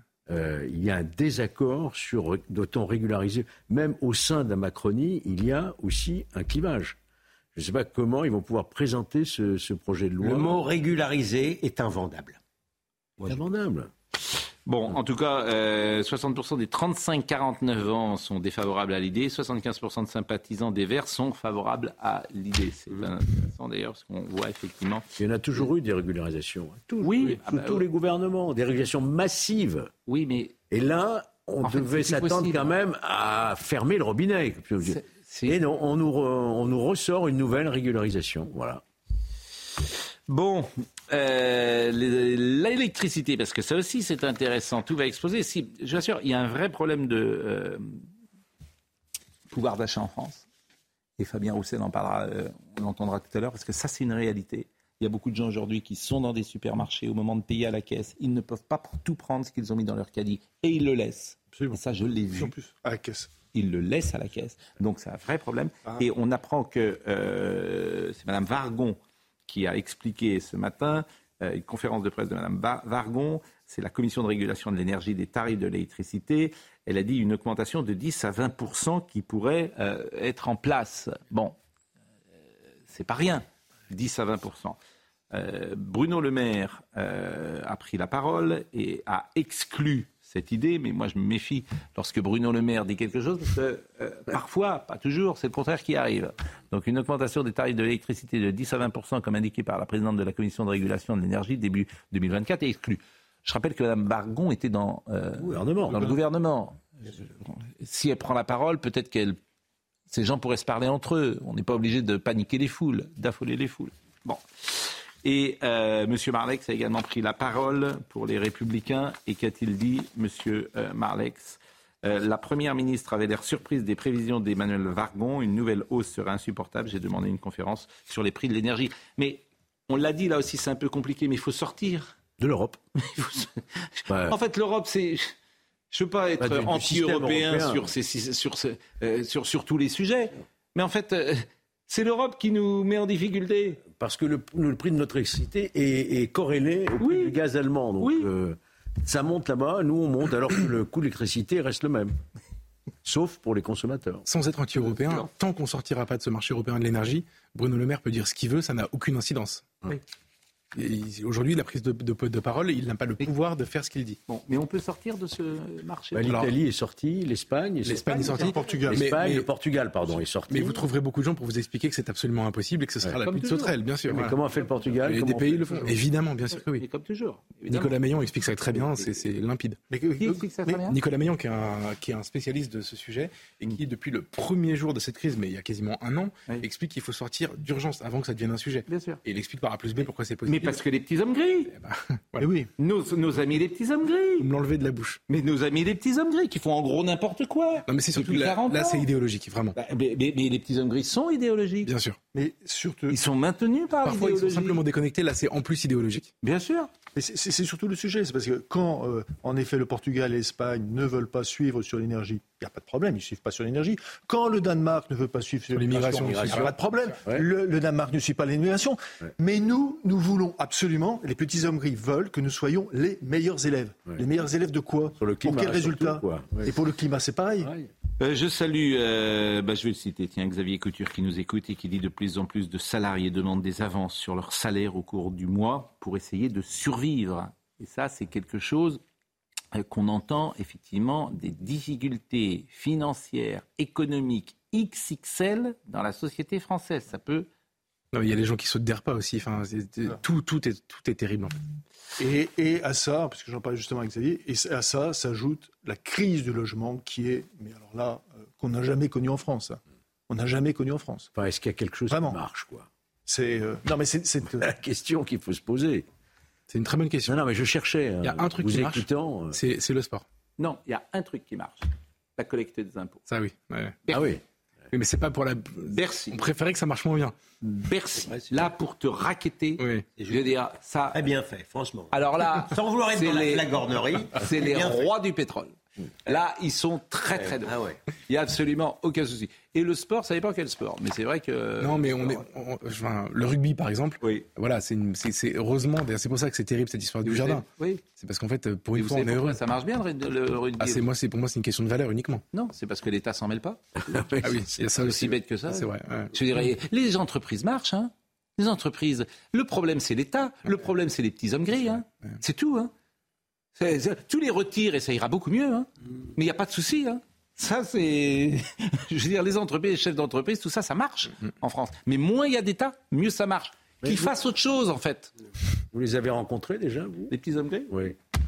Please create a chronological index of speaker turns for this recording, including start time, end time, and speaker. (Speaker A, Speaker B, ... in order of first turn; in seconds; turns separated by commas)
Speaker A: 0.3-7.0, Speaker A: 7.5-10.6, Speaker B: 10.2-12.4, Speaker A: 13.2-13.9, Speaker C: 14.7-25.1, Speaker A: 25.2-29.9, Speaker C: 27.0-27.9, Speaker C: 30.1-30.5, Speaker A: 30.7-38.8, Speaker C: 31.6-32.7, Speaker C: 34.9-35.6, Speaker C: 40.3-48.0, Speaker C: 49.5-50.4, Speaker C: 51.2-62.5, Speaker D: 61.5-61.8, Speaker D: 62.3-63.3, Speaker C: 63.5-81.6, Speaker C: 82.9-84.8, Speaker C: 85.3-109.4, Speaker A: 105.4-106.2, Speaker C: 110.1-132.1, Speaker A: 132.4-132.8, Speaker C: 133.1-135.3, Speaker A: 134.1-134.4, Speaker C: 135.9-143.8, Speaker A: 136.4-137.9, Speaker A: 143.8-152.2, Speaker C: 147.0-147.4, Speaker C: 148.0-148.3, Speaker A: 153.0-154.2, Speaker E: 154.3-159.7, Speaker E: 160.8-164.2, Speaker C: 164.3-166.5, Speaker A: 166.1-170.8, Speaker E: 166.2-166.5, Speaker E: 167.8-169.5, Speaker D: 168.1-169.1, Speaker E: 170.5-174.4, Speaker C: 173.2-173.7, Speaker A: 174.1-175.9, Speaker C: 174.5-174.8, Speaker E: 175.0-176.8, Speaker C: 176.8-178.0, Speaker E: 177.7-179.8, Speaker C: 178.7-179.2, Speaker D: 179.9-180.9, Speaker C: 180.2-181.0, Speaker E: 180.9-190.8, Speaker C: 188.9-189.2, Speaker C: 190.5-191.7, Speaker E: 191.7-192.5, Speaker D: 192.4-192.7, Speaker C: 192.8-194.5, Speaker E: 194.4-195.2, Speaker C: 195.3-199.1, Speaker E: 197.9-199.8, Speaker C: 199.8-201.9, Speaker E: 201.8-202.2, Speaker D: 202.3-203.2, Speaker C: 203.1-204.8, Speaker E: 204.0-206.3, Speaker C: 206.4-206.9, Speaker D: 207.1-227.7, Speaker E: 215.7-216.8, Speaker A: 215.9-216.7, Speaker A: 225.2-226.7, Speaker A: 227.6-227.9, Speaker C: 228.2-239.0, Speaker C: 239.7-247.5, Speaker E: 248.1-251.6, Speaker D: 252.2-261.3, Speaker A: 261.4-262.9, Speaker D: 262.1-262.4, Speaker D: 263.3-264.7, Speaker A: 264.6-266.1, Speaker E: 266.7-267.4, Speaker A: 267.3-269.6, Speaker E: 268.2-270.2, Speaker C: 270.6-273.2, Speaker E: 273.3-274.0, Speaker A: 274.1-274.4, Speaker E: 274.9-277.4, Speaker C: 275.9-276.4, Speaker C: 277.6-281.2, Speaker E: 279.8-280.1, Speaker B: 280.2-285.1, Speaker C: 282.1-283.7, Speaker C: 284.4-285.7, Speaker C: 286.3-287.8, Speaker B: 287.3-288.0, Speaker C: 288.3-292.4, Speaker E: 291.8-299.6, Speaker C: 297.2-298.0, Speaker C: 298.9-301.0, Speaker E: 300.8-302.4, Speaker C: 302.5-303.8, Speaker A: 304.0-305.1, Speaker E: 304.4-306.3, Speaker C: 305.0-312.9, Speaker C: 313.8-325.3, Speaker A: 324.0-324.3, Speaker A: 325.9-327.4, Speaker C: 327.3-328.0, Speaker A: 327.9-328.2